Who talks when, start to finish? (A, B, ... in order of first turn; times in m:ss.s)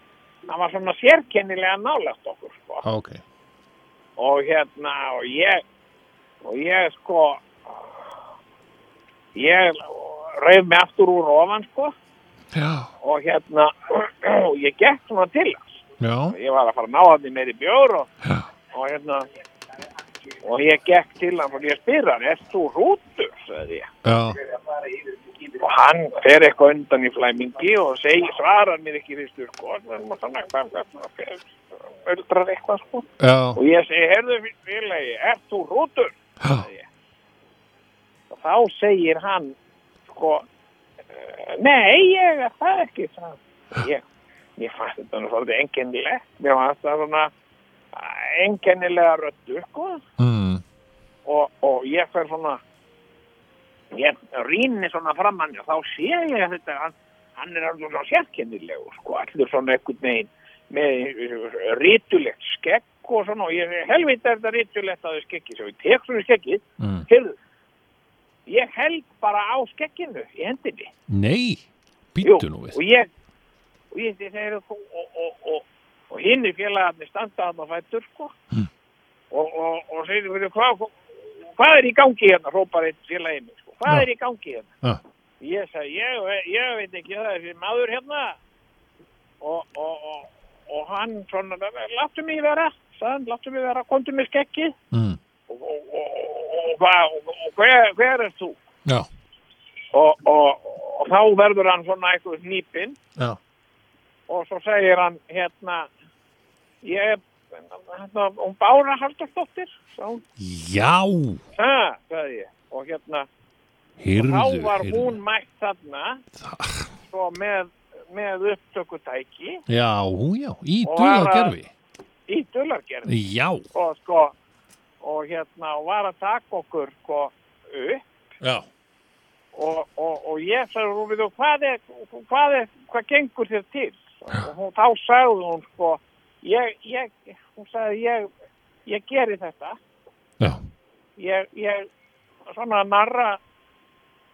0:00.5-0:02.8 A
0:02.8-0:03.2 B
0:04.2-0:05.6 A
0:06.4-0:07.4 A
0:09.3-0:11.9 A
0:12.5-0:12.9 B
0:13.0-0:15.8 A
0:16.0-0:16.4 B
0:16.3-0:18.1 A
0:18.7-0:19.2 A
0:20.4-0:23.9 A
0:24.0-0:24.4 B
0:25.4-0:36.8 A
0:33.2-0:33.6 B
0:38.3-0:39.6 A
0:40.1-0:40.4 A
0:41.1-0:44.0 A
0:44.6-0:47.3 A
0:47.9-0:50.0 A
0:50.2-0:50.6 B
0:51.2-0:52.6 A
0:53.9-1:07.3 A
1:06.8-1:07.1 B
1:08.5-1:10.9 A
1:11.1-1:12.8 B
1:12.2-1:13.1 A
1:13.9-1:18.3 A
1:19.3-1:24.7 A
1:25.4-1:28.4 A
1:29.4-1:34.8 A
1:34.9-1:35.2 B
1:35.5-1:38.6 A
1:39.9-1:43.0 A
1:44.3-1:45.9 A
1:46.8-1:50.2 A
1:50.4-1:51.4 B
1:51.6-1:53.3 A
1:54.0-1:55.2 B
1:54.1-1:56.2 A
1:56.4-1:56.9 B
1:57.1-1:59.6 A
1:59.7-2:01.7 B
2:00.8-2:01.5 A
2:02.3-2:03.1 A
2:03.1-2:03.6 B
2:03.7-2:04.3 A
2:05.0-2:08.0 A
2:08.4-2:08.7 B
2:09.5-2:18.3 A
2:18.8-2:19.8 A
2:20.4-2:20.7 B
2:21.2-2:21.9 A
2:22.5-2:23.4 A